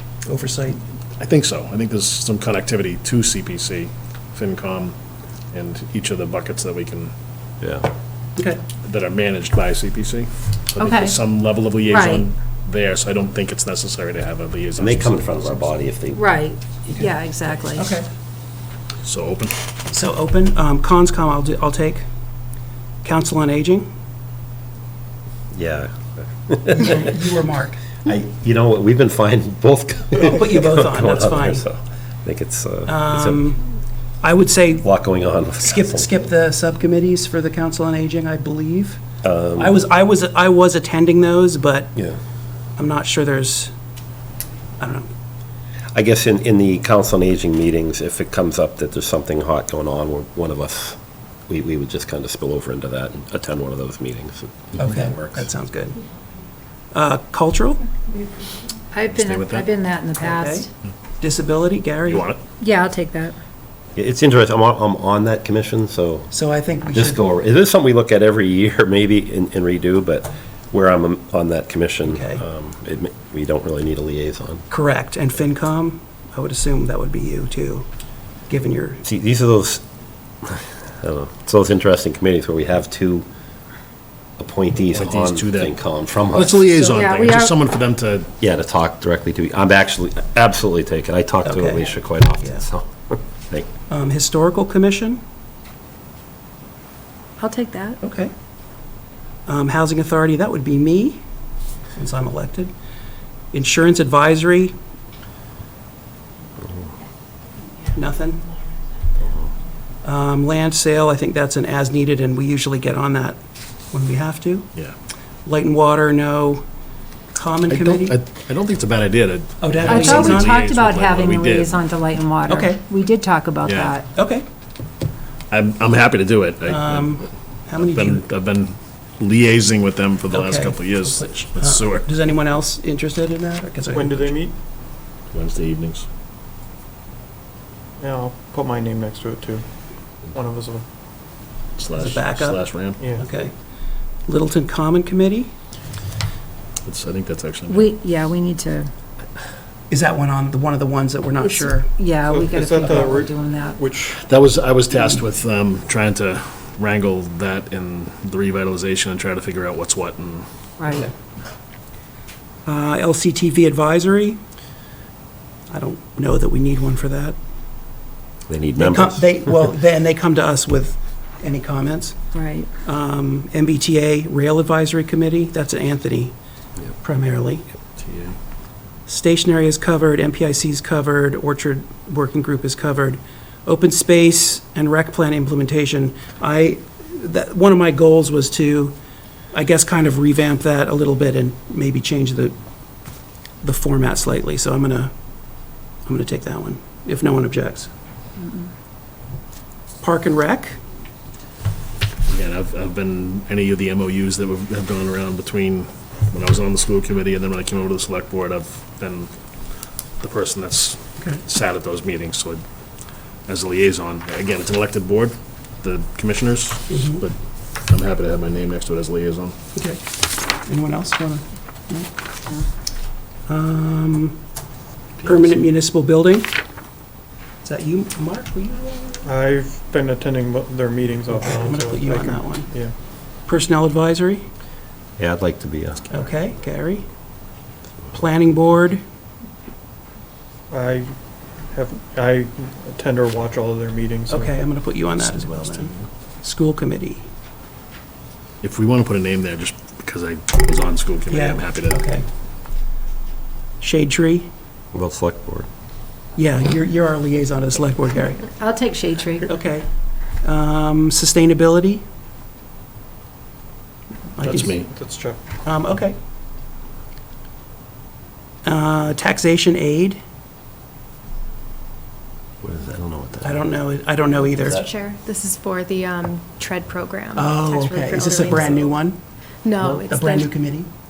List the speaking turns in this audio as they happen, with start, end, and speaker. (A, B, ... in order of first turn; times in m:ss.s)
0:00.2-0:00.8 A
0:01.2-0:05.0 B
0:05.5-0:07.1 B
0:07.6-0:07.9 C
0:08.8-0:15.4 B
0:10.8-0:11.2 D
0:11.8-0:12.2 D
0:14.8-0:16.3 C
0:16.1-0:17.9 D
0:17.7-0:18.0 A
0:19.0-0:19.5 B
0:19.9-0:22.0 A
0:23.0-0:23.9 A
0:25.5-0:27.3 C
0:26.8-0:27.8 A
0:28.0-0:33.4 C
0:30.2-0:31.6 A
0:32.8-0:33.6 A
0:34.2-0:34.9 A
0:34.8-0:36.2 C
0:35.6-0:39.0 A
0:39.2-0:39.8 C
0:39.6-0:42.0 A
0:42.8-0:43.7 A
0:44.8-0:45.1 A
0:45.9-0:51.0 C
0:51.5-0:55.5 C
0:54.8-0:56.0 A
0:56.9-0:57.8 A
0:58.9-1:00.7 D
0:59.1-0:59.7 B
1:00.2-1:00.7 A
1:01.2-1:02.3 A
1:02.1-1:02.4 B
1:02.6-1:03.4 D
1:03.9-1:06.3 C
1:06.3-1:07.2 A
1:06.9-1:14.6 C
1:12.0-1:12.4 A
1:14.7-1:17.8 A
1:18.5-1:19.0 A
1:19.0-1:19.8 C
1:20.4-1:23.2 C
1:24.4-1:26.7 C
1:24.9-1:25.8 B
1:26.3-1:28.3 B
1:26.8-1:27.5 D
1:28.4-1:33.7 C
1:31.4-1:32.6 A
1:33.9-1:35.2 A
1:37.4-1:38.0 D
1:38.0-1:38.3 A
1:39.4-1:41.2 A
1:41.9-1:42.7 A
1:43.5-1:44.7 A
1:47.9-1:48.4 A
1:49.2-1:49.5 C
1:50.0-1:53.4 A
1:53.9-1:54.7 A
1:55.4-1:56.6 A
1:57.3-1:58.2 A
1:57.7-2:01.8 B
1:59.6-2:00.6 A
1:59.8-2:04.1 D
2:02.4-2:02.8 A
2:03.6-2:04.0 B
2:04.1-2:04.4 A
2:05.5-2:07.2 B
2:06.7-2:08.2 A
2:07.8-2:12.1 B
2:10.3-2:14.4 A
2:13.9-2:14.5 E
2:15.3-2:16.0 B
2:18.0-2:19.6 E
2:20.3-2:20.8 E
2:21.8-2:23.0 B
2:22.0-2:23.5 A
2:23.0-2:23.2 E
2:24.2-2:25.5 A
2:26.8-2:27.9 B
2:27.7-2:28.9 D
2:29.9-2:31.9 A
2:31.4-2:33.8 D
2:32.2-2:34.2 E
2:34.1-2:40.4 B
2:40.8-2:41.1 D
2:42.6-2:44.4 A
2:45.7-2:47.4 A
2:48.5-2:49.4 C
2:48.8-2:52.2 A
2:52.3-2:52.7 D
2:52.8-2:56.3 A
2:56.9-2:57.7 A
2:58.0-2:58.4 B
2:59.0-3:09.0 A
3:09.5-3:12.5 A
3:13.6-3:15.1 A
3:16.0-3:17.9 A
3:18.4-3:18.7 D
3:20.0-3:20.8 A
3:22.3-3:29.3 B
3:30.2-3:32.6 B
3:33.4-3:39.6 B
3:36.9-3:37.2 A
3:39.7-3:42.1 A
3:43.5-3:44.4 A
3:45.2-3:45.6 B
3:45.2-3:46.5 A
3:47.6-3:49.2 A
3:49.2-3:52.9 E
3:51.3-3:52.7 A
3:53.4-3:54.4 A
3:55.2-3:56.1 C
3:56.1-3:57.1 A
3:58.1-3:59.0 A
4:00.7-4:01.2 E
4:01.7-4:04.6 E
4:04.3-4:07.2 A
4:08.6-4:12.0 B
4:11.3-4:12.2 A
4:13.8-4:14.5 A
4:14.9-4:15.7 C
4:16.4-4:18.5 A
4:18.6-4:19.6 D
4:19.4-4:19.9 A
4:20.4-4:22.0 A
4:24.4-4:24.8 A
4:24.4-4:24.9 B
4:24.6-4:25.4 E
4:25.6-4:26.2 A
4:28.6-4:30.2 A
4:32.6-4:33.7 C
4:33.4-4:34.9 A
4:34.6-4:38.8 F
4:37.3-4:39.2 A
4:39.6-4:40.5 F
4:39.8-4:40.9 A